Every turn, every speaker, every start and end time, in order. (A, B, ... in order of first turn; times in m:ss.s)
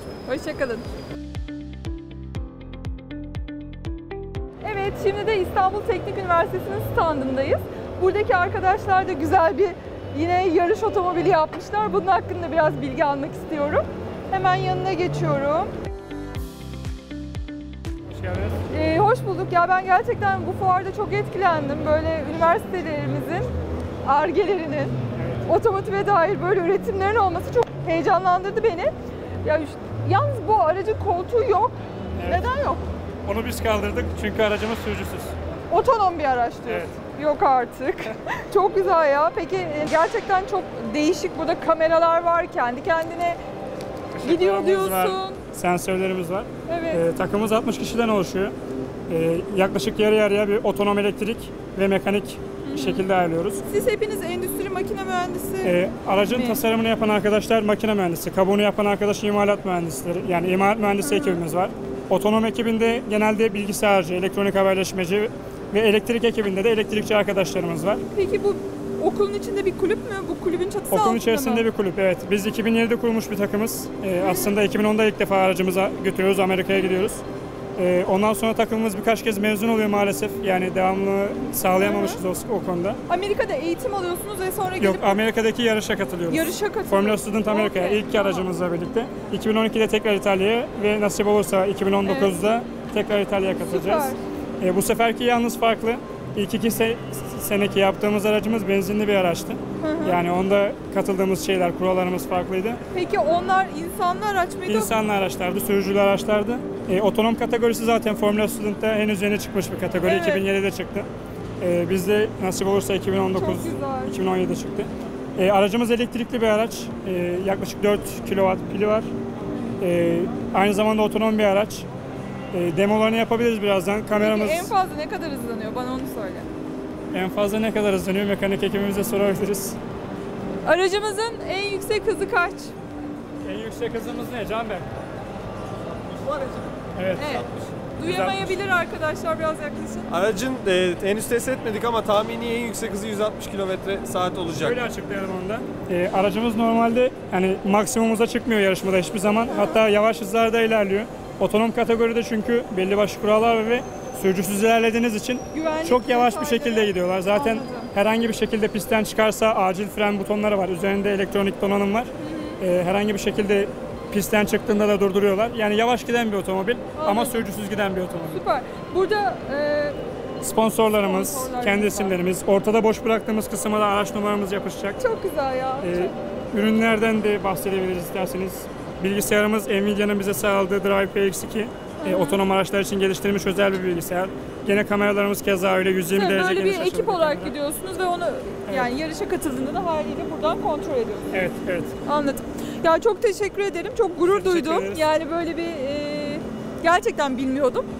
0:00.2-0:00.8 A
0:04.6-0:15.7 A
0:18.1-0:18.6 B
0:18.7-0:23.5 A
0:24.0-0:24.9 A
0:25.1-0:25.4 B
0:25.4-0:28.9 A
0:29.4-0:32.8 A
0:32.2-0:32.4 B
0:33.2-0:35.3 B
0:35.7-0:43.4 A
0:36.7-0:37.0 B
0:44.1-0:48.5 B
0:44.2-0:45.4 A
0:46.6-0:47.0 A
0:49.1-0:53.6 B
0:52.6-0:53.0 A
0:53.7-0:56.6 A
0:55.6-1:08.0 B
1:01.0-1:01.4 A
1:08.1-1:11.7 A
1:10.9-1:17.2 B
1:14.2-1:14.5 A
1:16.8-1:17.0 A
1:17.8-1:23.0 B
1:21.8-1:22.2 A
1:23.1-1:25.2 A
1:24.8-1:42.8 B
1:26.3-1:28.5 A
1:32.0-1:32.4 A
1:33.6-1:34.2 A
1:39.8-1:40.2 A
1:42.9-1:44.9 A
1:44.7-1:51.1 B
1:50.0-1:50.4 A
1:51.6-1:59.1 B
1:53.3-1:54.2 A
1:59.8-2:01.9 B
2:02.5-2:04.7 B
2:04.2-2:06.5 A
2:07.1-2:09.8 B
2:10.6-2:12.7 A
2:13.4-2:14.9 B
2:15.9-2:16.8 C
2:16.9-2:17.4 B
2:17.1-2:20.1 A
2:18.0-2:18.5 B
2:20.1-2:24.8 C
2:24.5-2:48.4 B
2:29.5-2:29.8 A
2:35.5-2:37.9 A
2:42.2-2:42.6 A
2:46.9-2:47.4 A
2:48.3-2:50.0 A
2:50.4-2:55.0 B
2:50.9-2:52.2 A
2:55.0-2:56.2 A
2:55.8-3:07.5 B
3:02.0-3:02.4 A
3:06.1-3:11.3 A
3:08.7-3:08.9 B
3:11.3-3:11.9 B
3:12.0-3:17.9 A
3:14.2-3:15.1 B